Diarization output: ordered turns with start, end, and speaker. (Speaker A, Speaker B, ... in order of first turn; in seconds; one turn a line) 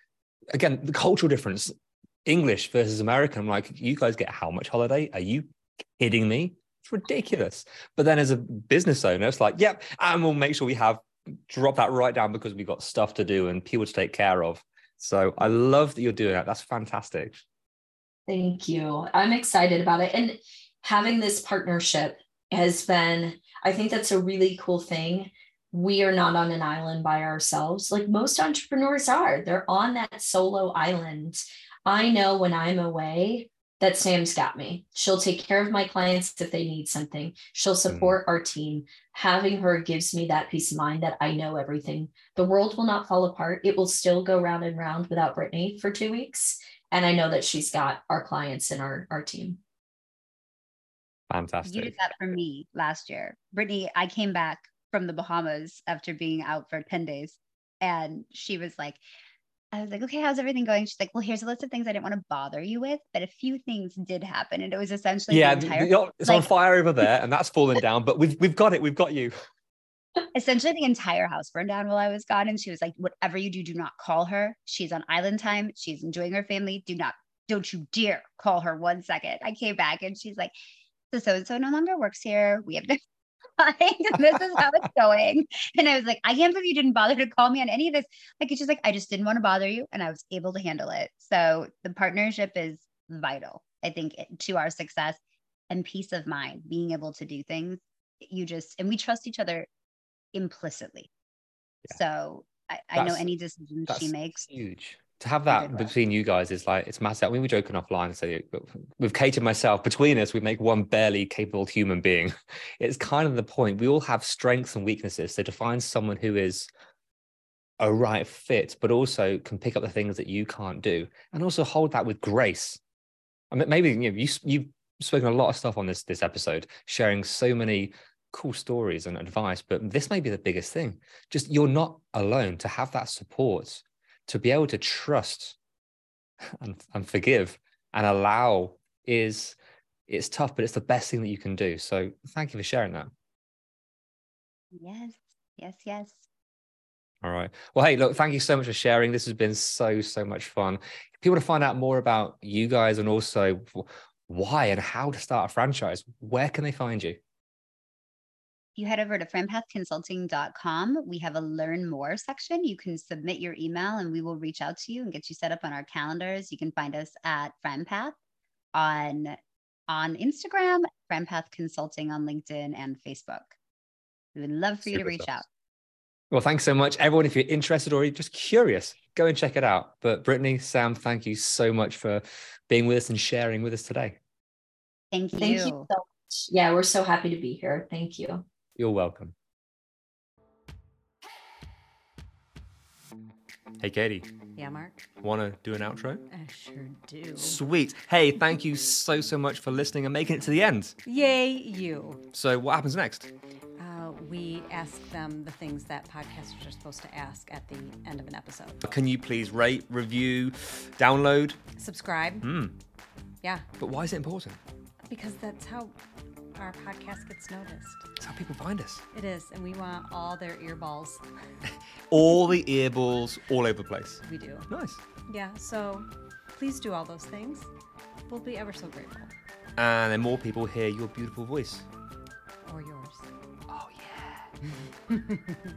Speaker A: 0.5-1.7
Speaker A: 2.2-5.5
Speaker A: 6.0-17.4
Speaker B: 18.3-49.6
Speaker A: 37.9-38.2
Speaker A: 51.3-52.0
Speaker C: 51.6-59.0
Speaker C: 59.7-66.5
Speaker A: 65.3-69.3
Speaker C: 70.3-80.5
Speaker C: 81.1-83.0
Speaker C: 83.6-95.2
Speaker C: 95.7-99.7
Speaker C: 100.3-101.1
Speaker C: 101.9-104.5
Speaker A: 103.0-103.3
Speaker A: 103.9-116.7
Speaker C: 105.5-105.9
Speaker A: 117.8-122.8
Speaker A: 123.5-135.6
Speaker A: 136.5-139.6
Speaker A: 140.1-143.1
Speaker C: 144.8-146.3
Speaker A: 147.2-157.2
Speaker C: 158.8-168.2
Speaker C: 168.7-169.4
Speaker C: 169.9-173.5
Speaker C: 174.3-175.5
Speaker A: 174.8-175.3
Speaker A: 176.3-184.2
Speaker C: 185.1-185.9
Speaker B: 185.4-188.4
Speaker A: 188.8-189.3
Speaker A: 193.8-194.3
Speaker D: 194.6-195.1
Speaker A: 195.2-196.2
Speaker D: 196.3-197.6
Speaker A: 197.4-200.9
Speaker D: 201.1-202.2
Speaker A: 202.3-203.3
Speaker D: 203.8-208.9
Speaker A: 208.8-211.6
Speaker D: 211.8-212.5
Speaker A: 212.4-212.7
Speaker A: 213.8-214.6
Speaker D: 215.1-215.9
Speaker D: 216.6-218.1
Speaker A: 218.2-219.0
Speaker D: 219.1-221.2
Speaker A: 221.7-225.0
Speaker D: 224.3-224.7
Speaker D: 225.3-227.7
Speaker D: 228.3-229.3
Speaker A: 229.8-231.8
Speaker D: 232.7-233.3
Speaker A: 233.7-234.5
Speaker D: 235.1-235.6